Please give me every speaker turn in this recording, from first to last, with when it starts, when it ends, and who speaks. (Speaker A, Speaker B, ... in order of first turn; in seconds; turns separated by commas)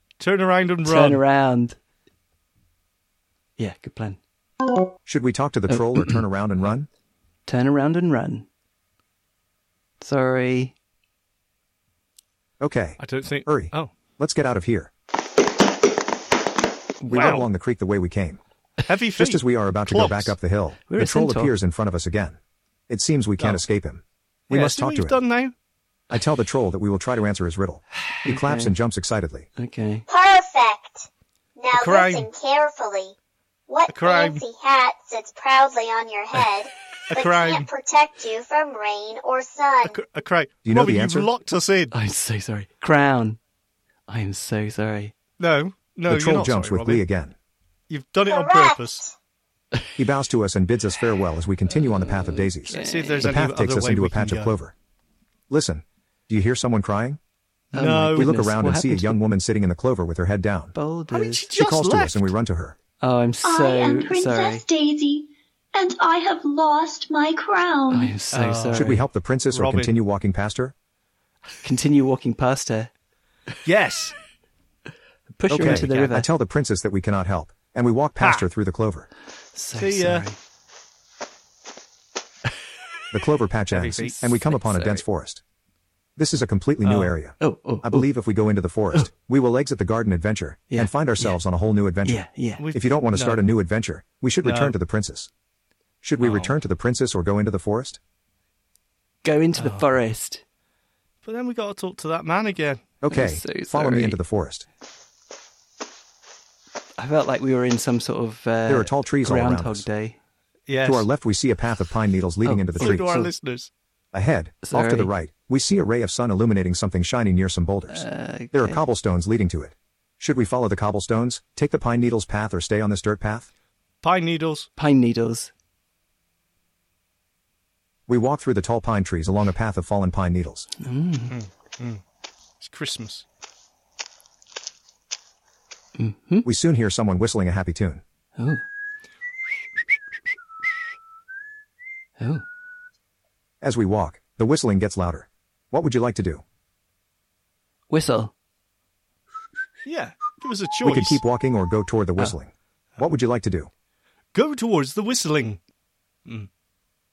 Speaker A: 0.2-1.2, Speaker B: 0.8-1.8, Speaker B: 3.6-4.2, Speaker C: 5.1-6.9, Speaker B: 5.7-6.2, Speaker B: 7.5-8.5, Speaker B: 10.0-10.8, Speaker C: 12.6-14.9, Speaker A: 13.0-13.9, Speaker B: 17.0-17.4, Speaker C: 17.1-18.4, Speaker A: 17.1-17.5, Speaker A: 18.9-20.4, Speaker C: 19.1-22.4, Speaker B: 20.9-21.6, Speaker C: 22.9-25.2, Speaker A: 24.5-25.5, Speaker C: 26.1-29.5, Speaker B: 28.2-28.7, Speaker B: 29.6-30.1, Speaker D: 30.1-33.1, Speaker A: 31.7-32.3, Speaker D: 33.7-40.0, Speaker A: 33.9-34.4, Speaker A: 37.1-37.7, Speaker A: 39.9-41.9, Speaker C: 40.6-41.3, Speaker B: 41.9-43.4, Speaker B: 44.1-45.1, Speaker A: 45.4-47.0, Speaker C: 46.1-47.4, Speaker A: 47.9-49.0, Speaker D: 48.3-49.1, Speaker C: 50.0-54.7, Speaker B: 51.9-53.4, Speaker A: 52.7-54.5, Speaker C: 55.5-57.2, Speaker A: 57.7-58.3, Speaker B: 57.7-59.2, Speaker C: 58.1-60.7, Speaker B: 60.7-61.5, Speaker A: 61.1-62.3, Speaker C: 61.5-62.8, Speaker B: 63.0-64.6, Speaker E: 63.4-68.2, Speaker B: 67.9-69.0, Speaker A: 68.3-70.0, Speaker C: 68.7-70.7, Speaker B: 71.6-72.9, Speaker A: 73.7-74.2, Speaker B: 75.3-76.3, Speaker C: 75.5-79.1, Speaker A: 75.6-76.0, Speaker A: 78.2-78.5, Speaker B: 79.5-80.4, Speaker A: 79.8-80.3, Speaker C: 83.1-85.4, Speaker A: 83.7-84.2, Speaker B: 84.0-85.0, Speaker C: 86.2-95.3, Speaker A: 86.8-87.2, Speaker B: 87.4-88.1, Speaker B: 90.7-91.4, Speaker B: 92.0-92.6, Speaker A: 92.6-93.5, Speaker A: 94.4-94.8, Speaker C: 96.0-98.0, Speaker A: 96.2-96.6, Speaker B: 99.2-100.4, Speaker A: 99.6-99.9, Speaker A: 101.2-102.8, Speaker C: 103.0-104.7, Speaker B: 103.1-104.2, Speaker B: 107.0-110.2, Speaker C: 108.7-109.9, Speaker A: 110.7-111.1, Speaker C: 110.8-113.1, Speaker B: 112.5-113.3, Speaker A: 112.8-113.7, Speaker C: 114.1-123.5, Speaker B: 114.6-115.1, Speaker B: 117.9-118.8, Speaker A: 124.0-124.7, Speaker B: 124.8-125.5, Speaker C: 128.1-130.7, Speaker B: 130.8-131.4, Speaker A: 131.3-132.0, Speaker A: 132.6-133.2, Speaker B: 136.0-136.5, Speaker C: 136.4-138.0, Speaker B: 138.4-138.6, Speaker B: 142.2-142.4, Speaker C: 143.6-146.4, Speaker B: 147.9-148.3, Speaker A: 149.8-151.2, Speaker C: 150.8-153.7, Speaker A: 154.3-155.6